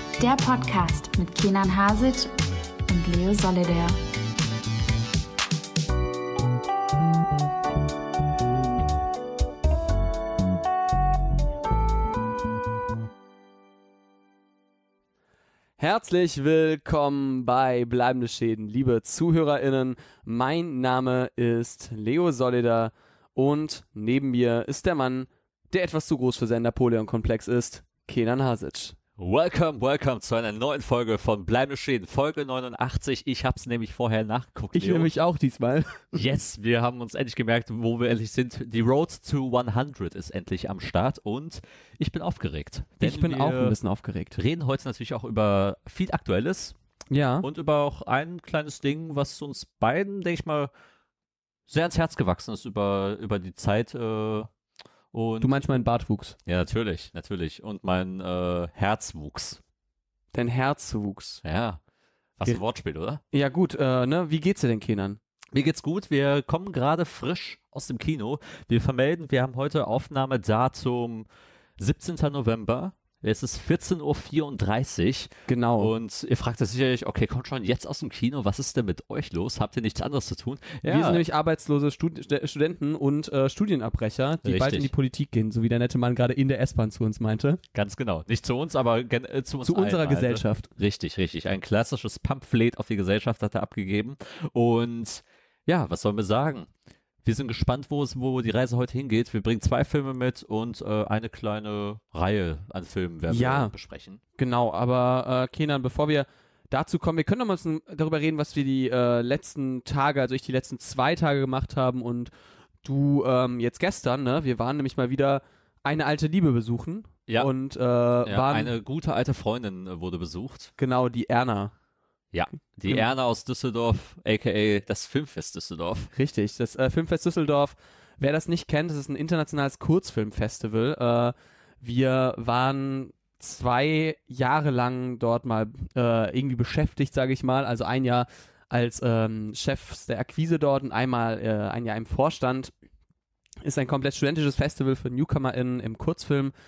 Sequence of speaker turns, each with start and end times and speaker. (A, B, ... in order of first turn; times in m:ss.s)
0:00.2-0:02.3 A
0:02.9-0:04.0 A
0:15.8-0:29.0 B
0:29.2-0:35.1 C
0:34.7-0:36.2 B
0:36.1-0:43.8 C
0:43.0-0:44.4 B
0:44.3-0:46.7 C
0:47.1-0:47.4 B
0:47.4-0:50.7 C
0:51.7-0:54.5 C
0:55.1-0:55.6 C
0:55.4-0:56.4 B
0:56.4-0:59.6 C
1:00.3-1:01.4 B
1:01.4-1:01.8 C
1:02.4-1:03.2 C
1:03.3-1:05.2 B
1:05.5-1:11.3 C
1:11.8-1:21.2 C
1:15.5-1:15.9 B
1:20.8-1:27.6 B
1:24.4-1:24.9 C
1:27.7-1:36.7 C
1:29.6-1:30.7 B
1:37.2-1:44.2 C
1:43.3-1:43.7 B
1:44.4-1:52.3 B
1:52.8-1:58.7 B
1:58.2-2:00.7 C
2:00.8-2:01.7 B
2:02.3-2:06.1 C
2:06.1-2:22.7 B
2:23.6-2:26.5 B